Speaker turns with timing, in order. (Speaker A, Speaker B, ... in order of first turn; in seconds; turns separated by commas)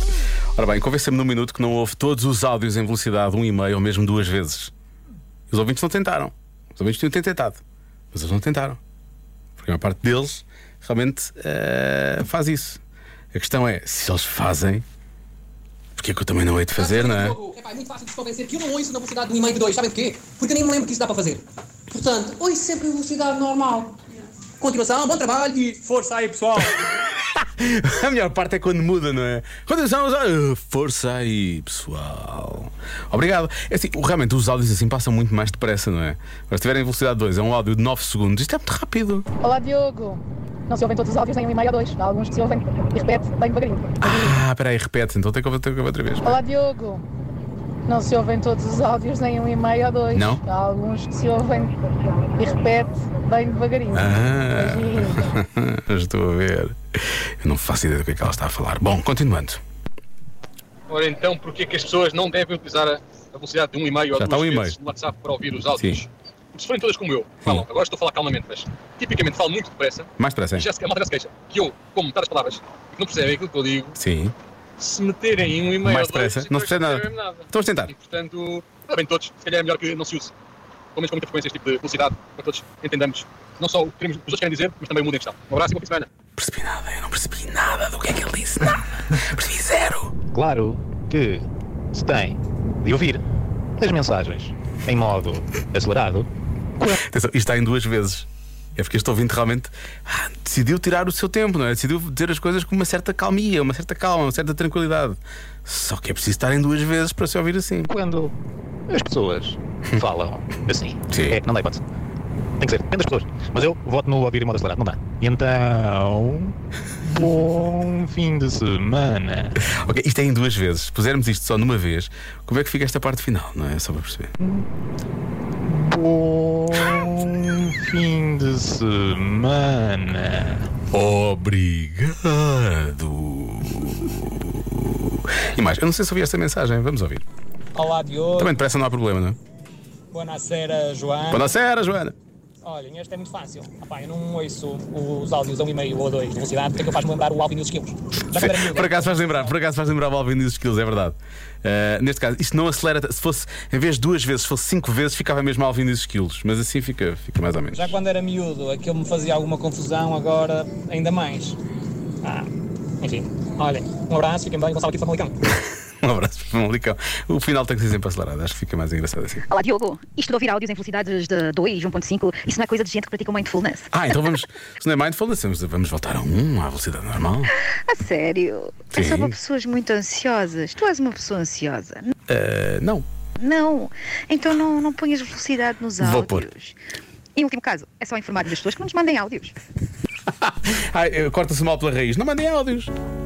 Speaker A: 0.6-4.7, Speaker A: 5.5-7.6, Speaker A: 8.1-8.8, Speaker A: 9.6-12.8, Speaker A: 13.3-14.8, Speaker A: 16.0-17.4, Speaker B: 17.6-18.5, Speaker B: 19.2-21.4, Speaker B: 22.0-23.9, Speaker B: 24.7-26.4, Speaker A: 26.9-39.3, Speaker C: 39.4-44.4, Speaker A: 44.0-46.4, Speaker C: 46.2-47.0, Speaker C: 47.9-55.3, Speaker A: 50.1-50.4, Speaker A: 53.9-59.6, Speaker D: 60.9-74.0, Speaker A: 64.2-64.8, Speaker A: 65.8-66.0, Speaker A: 70.2-70.7, Speaker A: 74.0-74.3, Speaker D: 74.8-80.3, Speaker A: 75.8-77.9, Speaker D: 81.0-86.1, Speaker A: 86.4-90.1, Speaker E: 90.3-93.2, Speaker E: 93.8-96.3, Speaker A: 96.9-107.9, Speaker E: 107.9-108.3, Speaker E: 108.9-111.8, Speaker A: 111.1-111.4, Speaker E: 112.6-119.6, Speaker A: 119.6-124.3, Speaker E: 125.6-130.7, Speaker A: 130.9-137.2, Speaker F: 137.8-138.5, Speaker A: 138.4-139.4, Speaker F: 140.1-141.5, Speaker A: 141.3-142.2, Speaker F: 142.6-149.5, Speaker A: 148.3-157.9, Speaker F: 157.7-161.6, Speaker F: 162.2-162.5, Speaker F: 163.0-165.3, Speaker A: 165.5-169.4, Speaker G: 169.5-173.9, Speaker A: 173.9-177.5, Speaker G: 177.9-182.1, Speaker A: 178.9-179.4, Speaker A: 182.3-183.1, Speaker G: 183.4-186.8, Speaker A: 186.0-186.5, Speaker G: 187.4-189.5, Speaker A: 190.3-192.9